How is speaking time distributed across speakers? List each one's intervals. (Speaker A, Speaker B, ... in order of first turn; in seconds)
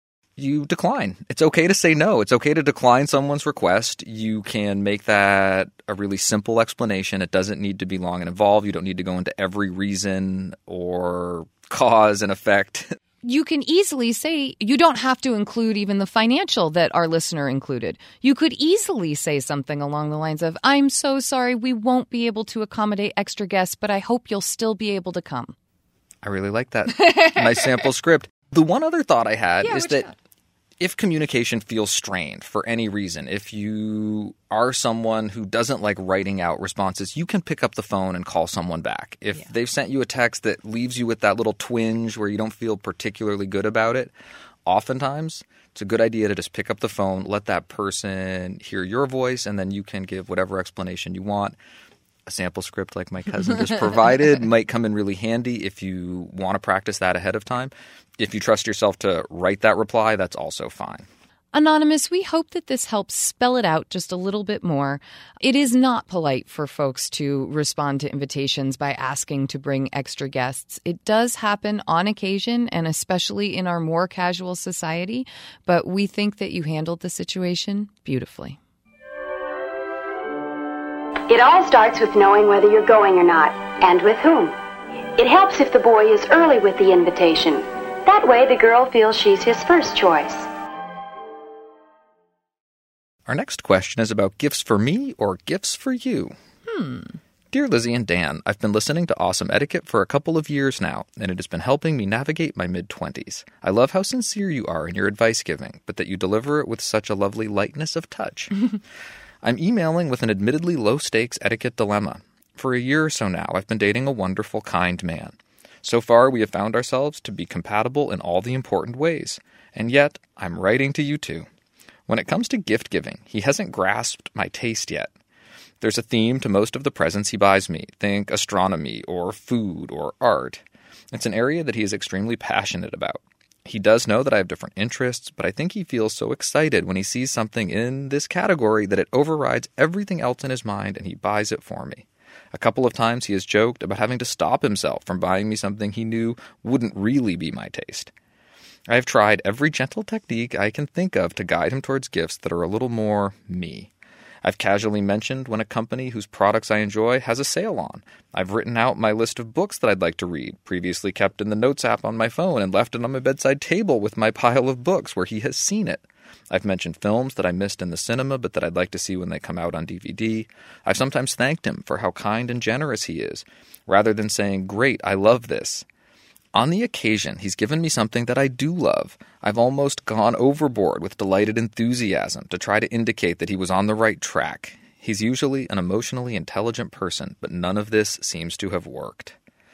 Speaker A: 0.4-12.9, 26.2-30.1, 30.8-44.1, 44.6-51.5, 52.2-61.1, 93.2-96.3, 97.5-108.6, 109.4-121.5, 122.1-125.1, 125.8-148.1, 148.9-153.9, 154.4-175.8, 176.5-189.3
Speaker B: 13.2-25.5, 27.0-27.8, 29.6-30.1, 61.5-78.6, 96.7-97.2
Speaker C: 81.3-84.5, 85.2-90.5